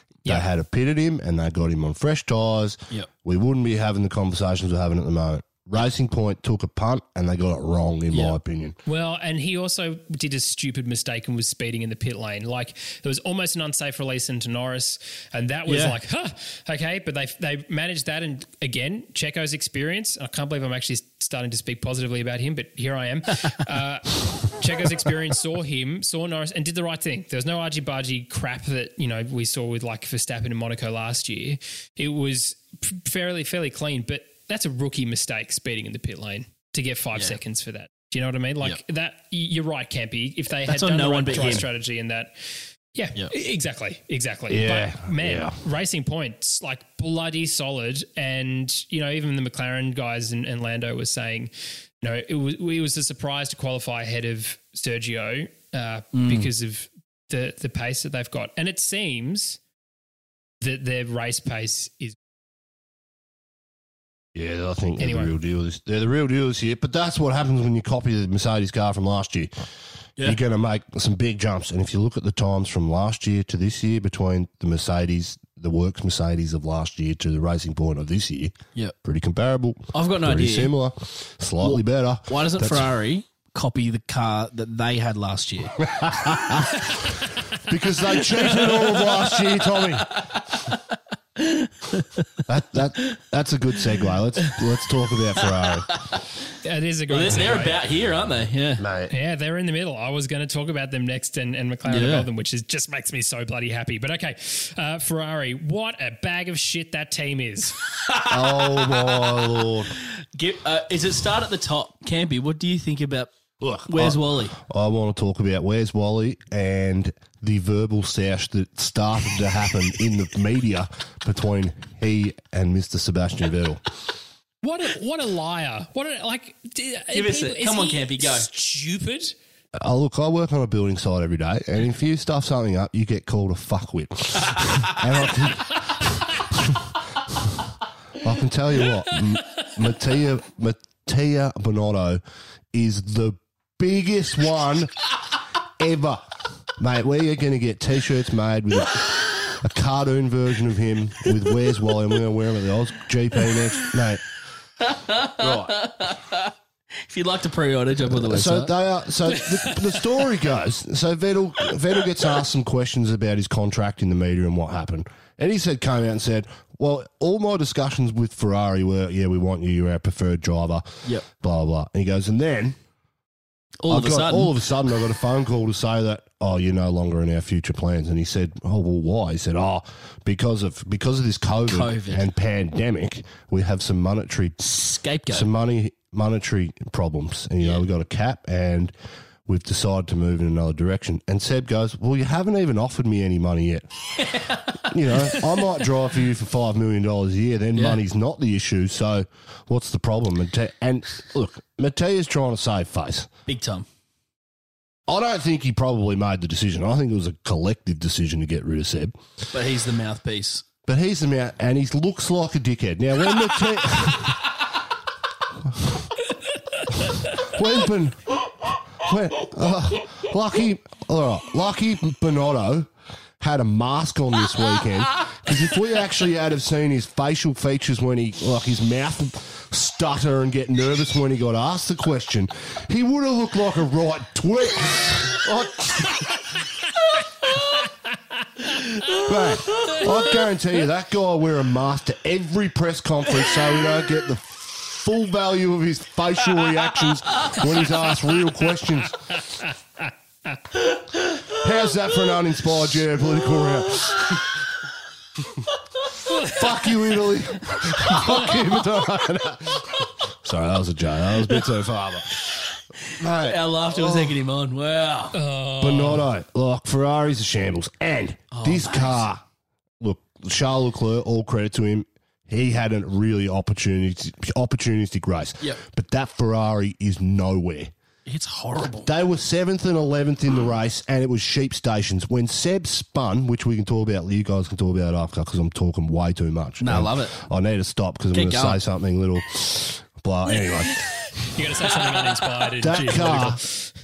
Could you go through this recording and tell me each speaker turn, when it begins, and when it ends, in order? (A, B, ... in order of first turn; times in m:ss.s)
0:00.2-0:08.8 A
0:08.8-0:51.5 B
0:15.7-0:15.9 C
0:40.7-0:41.6 C
0:44.5-0:45.6 A
0:52.0-0:59.6 B
0:56.1-0:56.5 C
1:00.6-1:02.2 B
1:04.3-1:09.5 A
1:05.0-1:05.4 B
1:10.2-1:22.9 A
1:19.9-1:20.7 C
1:21.6-1:27.0 C
1:25.8-1:30.2 A
1:28.3-1:32.2 C
1:32.5-1:36.0 A
1:35.4-1:36.2 C
1:36.6-1:37.8 B
1:37.1-1:38.8 C
1:38.8-1:39.1 A
1:39.1-1:47.8 B
1:41.9-1:42.3 C
1:48.1-1:53.3 C
1:48.3-1:49.9 A
1:53.6-2:03.8 A
1:53.9-1:54.6 C
2:04.6-2:09.4 B
2:07.1-2:08.5 C
2:09.8-2:17.6 A
2:18.2-2:22.2 A
2:22.7-2:25.0 A
2:25.8-2:34.2 A
2:33.4-2:34.0 C
2:34.8-2:36.5 C
2:35.4-2:35.8 A
2:37.1-2:38.8 C
2:38.1-2:52.8 A
2:39.3-2:40.1 C
2:53.8-2:54.5 C
2:53.9-3:04.6 A
3:01.7-3:02.3 C
3:04.6-3:05.5 C
3:05.3-3:08.9 A
3:09.4-3:13.9 A
3:14.2-3:15.7 C
3:14.7-3:23.3 A
3:23.4-3:23.8 C
3:25.1-3:29.2 A
3:29.5-3:30.6 C
3:30.8-3:34.5 A
3:35.6-3:36.1 A
3:37.3-3:56.4 A
3:59.2-4:09.2 A
4:09.5-4:10.1 B
4:11.5-4:14.6 A
4:16.3-4:16.6 B
4:16.4-4:22.4 A
4:18.1-4:18.5 C
4:22.4-4:25.4 C
4:23.2-4:24.4 A
4:25.3-4:26.2 B
4:25.8-4:29.4 A
4:28.5-4:29.2 C
4:30.0-4:37.9 A
4:38.2-4:39.1 C
4:38.8-4:51.4 A
4:46.8-4:47.4 C
4:48.3-4:48.8 C
4:50.6-4:51.1 C
4:51.5-4:53.9 B
4:52.0-4:53.4 C
4:52.8-4:53.6 A